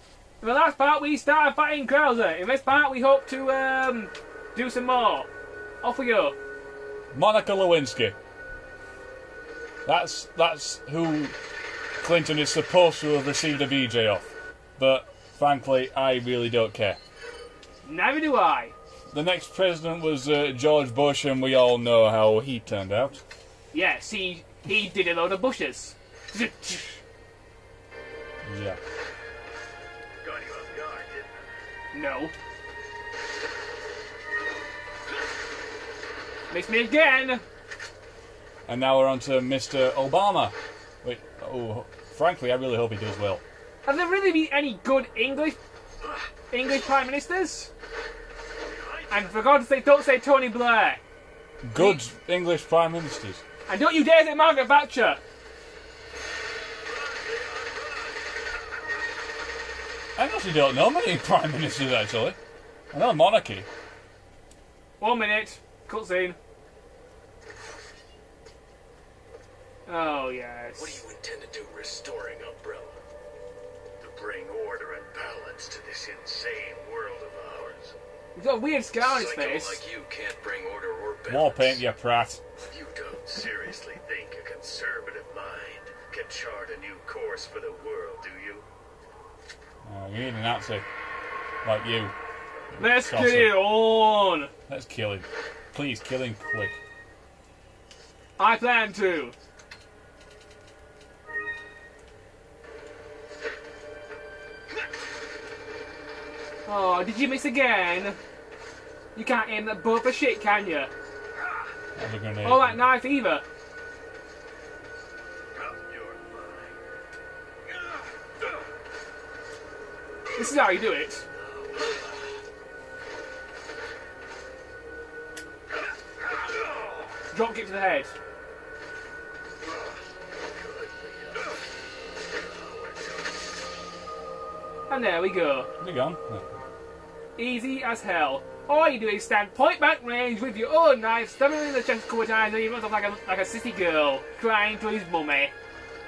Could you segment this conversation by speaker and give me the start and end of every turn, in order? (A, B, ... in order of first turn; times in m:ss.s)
0:00.4-0:05.3 A
0:05.8-0:06.4 A
0:07.1-0:08.2 B
0:09.8-0:11.3 B
0:12.0-0:17.0 B
0:17.8-0:18.7 A
0:19.1-0:23.2 B
0:23.7-0:27.0 A
0:28.4-0:28.8 B
0:30.2-0:31.3 C
0:31.9-0:32.3 A
0:36.5-0:37.4 A
0:38.6-0:43.4 B
0:43.8-0:45.6 A
0:46.5-0:47.7 A
0:48.8-0:49.2 C
0:49.1-0:51.0 A
0:51.6-0:53.4 B
0:51.7-0:52.0 A
0:53.7-0:55.2 A
0:56.9-0:58.0 C
1:00.2-1:02.4 B
1:02.9-1:03.7 B
1:05.0-1:06.4 A
1:09.9-1:11.0 A
1:10.8-1:13.0 C
1:14.0-1:17.9 C
1:18.4-1:19.8 A
1:19.0-1:21.8 C
1:21.3-1:22.4 B
1:22.7-1:28.7 C
1:29.8-1:30.8 B
1:31.6-1:32.1 B
1:32.8-1:33.7 B
1:32.8-1:34.5 A
1:34.7-1:36.8 B
1:38.4-1:39.3 A
1:46.6-1:48.2 A
1:49.1-1:50.9 A
1:52.0-1:52.8 B
1:52.4-1:53.4 A
1:55.5-1:56.8 C
2:00.4-2:01.2 A
2:01.3-2:02.3 C
2:07.3-2:08.1 A
2:10.5-2:11.5 C
2:12.3-2:13.3 C
2:14.9-2:15.7 A
2:15.8-2:16.6 B
2:17.4-2:25.5 A